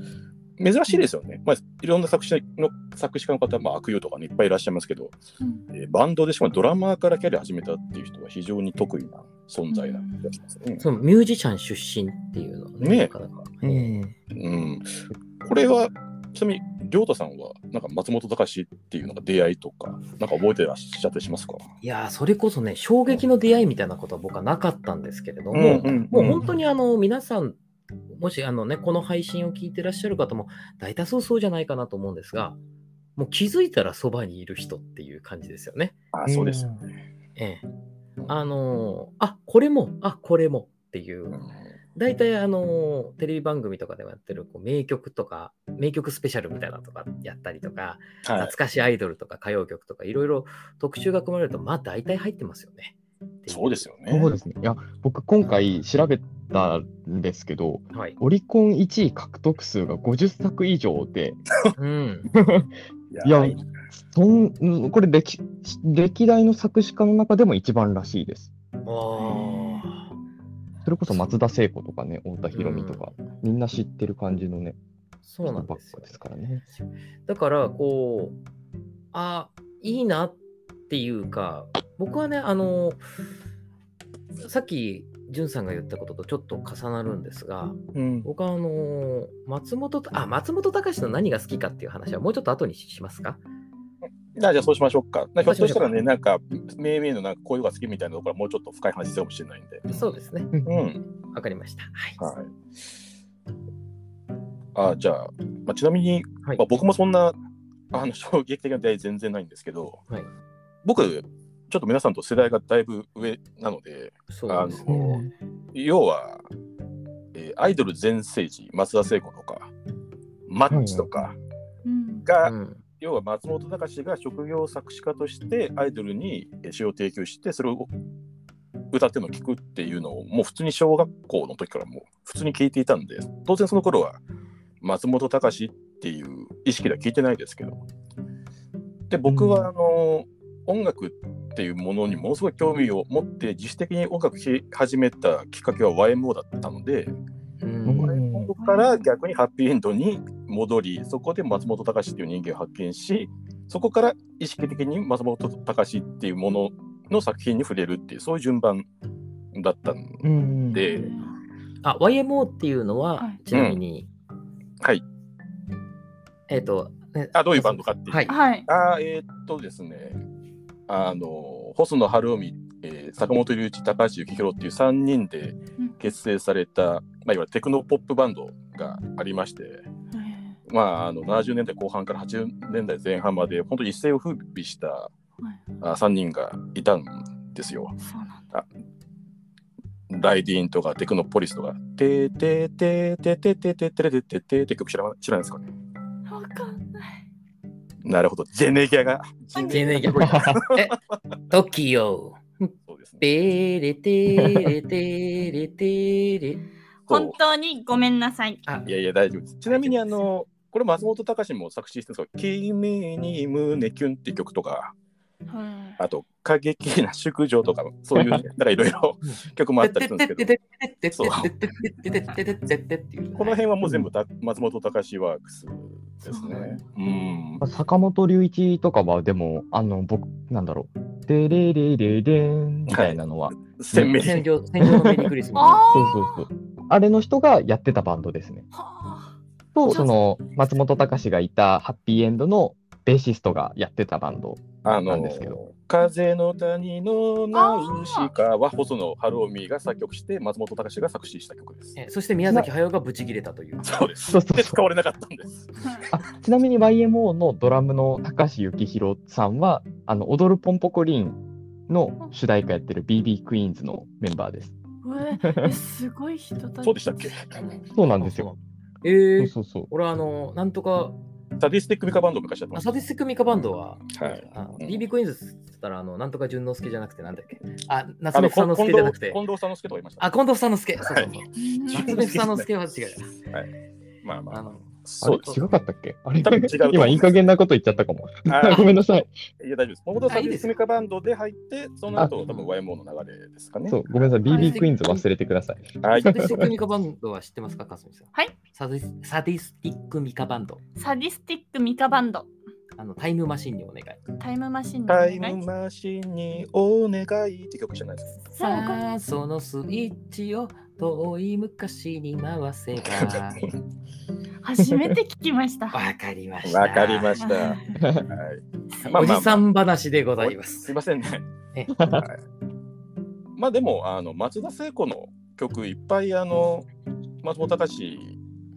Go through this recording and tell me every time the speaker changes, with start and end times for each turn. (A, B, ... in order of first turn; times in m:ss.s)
0:00.6-0:05.2 A
0:05.7-0:10.8 A
0:09.7-0:10.3 B
0:10.8-0:13.9 C
0:12.8-0:13.1 A
0:13.6-0:14.1 D
0:14.3-0:21.6 A
0:21.8-0:27.6 C
0:25.5-0:26.4 A
0:28.1-0:32.6 C
0:33.2-0:36.0 C
0:36.1-0:36.7 A
0:36.3-0:36.8 D
0:37.4-0:37.6 C
0:38.3-0:41.4 C
0:42.0-0:53.9 C
0:48.2-0:48.5 A
0:53.5-0:54.3 A
0:54.1-1:01.4 D
1:01.8-1:02.3 C
1:02.3-1:02.7 D
1:03.1-1:03.6 A
1:03.2-1:03.6 D
1:04.1-1:08.5 D
1:08.8-1:10.1 C
1:10.8-1:14.8 D
1:12.5-1:13.2 C
1:15.3-1:16.2 C
1:15.4-1:16.6 D
1:17.3-1:18.4 C
1:19.1-1:20.4 C
1:20.9-1:23.0 C
1:24.4-1:33.4 C
1:28.0-1:28.3 A
1:34.4-1:40.1 A
1:35.4-1:35.9 C
1:39.9-1:40.5 C
1:40.5-1:40.8 D
1:40.7-1:41.0 A
1:41.3-1:42.2 C
1:42.2-1:42.5 A
1:44.8-1:47.4 A
1:47.9-1:50.0 A
1:50.8-1:55.2 A
1:54.3-1:55.2 C
1:54.9-1:55.3 D
1:55.7-1:56.4 A
1:57.3-1:59.7 A
2:00.5-2:01.4 A
2:00.7-2:01.1 D
2:01.8-2:02.3 B
2:02.2-2:07.9 A
2:02.4-2:02.8 C
2:08.9-2:14.2 A
2:14.8-2:17.8 A
2:19.1-2:27.1 A
2:19.3-2:19.7 D
2:27.6-2:28.1 C
2:27.9-2:28.5 D
2:28.0-2:38.9 A
2:28.6-2:29.1 B
2:39.5-2:41.2 A
2:40.2-2:40.8 D
2:40.8-2:41.3 B
2:41.8-2:44.1 C
2:43.5-2:43.8 A
2:46.5-2:48.4 C
2:47.3-2:50.2 A
2:48.3-2:48.7 B
2:50.9-2:59.8 A
3:00.1-3:00.6 B
3:00.7-3:05.1 A
3:05.8-3:08.0 A
3:08.1-3:08.4 B
3:10.1-3:15.7 A
3:16.3-3:17.2 B
3:18.0-3:20.9 A
3:19.6-3:20.0 B
3:19.7-3:21.0 C
3:20.2-3:20.6 D
3:21.5-3:26.6 C
3:22.9-3:23.3 A
3:27.1-3:27.4 A
3:27.1-3:28.6 B
3:28.8-3:34.9 A
3:29.7-3:30.3 C
3:35.5-3:36.0 B
3:36.0-3:40.5 A
3:39.2-3:43.6 C
3:41.2-3:41.5 A
3:43.4-3:47.6 A
3:46.3-3:46.8 B
3:47.6-3:54.2 D
3:52.9-3:54.5 A
3:54.1-3:55.9 C
3:54.8-3:55.3 D
3:55.6-3:56.5 B
3:55.9-3:58.7 D
3:58.7-3:59.3 B
3:59.8-4:05.6 D
3:59.9-4:00.3 B
4:04.8-4:12.0 A
4:07.5-4:08.3 B
4:12.0-4:13.9 C
4:13.8-4:16.0 A
4:14.3-4:14.8 D
4:16.1-4:24.8 D
4:25.0-4:27.1 B
4:25.4-4:25.8 D
4:26.8-4:27.6 A
4:27.6-4:31.2 C
4:27.9-4:28.5 D
4:29.4-4:29.9 D
4:31.6-4:32.9 A
4:32.7-4:39.4 C
4:34.1-4:35.0 A
4:38.3-4:40.3 A
4:40.2-4:43.4 C
4:41.0-4:41.3 A
4:41.6-4:42.2 B
4:41.9-4:42.7 A
4:44.2-4:45.6 A
4:44.5-4:44.9 C
4:45.2-4:49.3 D
4:46.4-4:47.5 A
4:48.5-4:49.0 A
4:48.7-4:48.9 C
4:49.6-4:54.0 A
4:50.3-4:50.8 C
4:52.2-4:52.7 C
4:53.9-4:56.5 D
4:54.5-4:54.9 B
4:54.5-4:55.2 C
4:56.0-4:56.7 A
4:56.1-5:00.8 C
5:01.0-5:02.5 B
5:03.0-5:04.2 C
5:04.4-5:05.6 B
5:05.1-5:08.4 A
5:08.5-5:09.0 B
5:08.6-5:13.7 C
5:13.1-5:13.7 A
5:14.6-5:16.0 B
5:15.9-5:17.4 C
5:16.6-5:19.6 A
5:17.4-5:18.0 B
5:18.0-5:18.3 D
5:19.1-5:20.9 C
5:20.4-5:21.4 A
5:22.0-5:22.2 D
5:22.1-5:22.4 A
5:23.6-5:26.9 A
5:27.4-5:28.4 A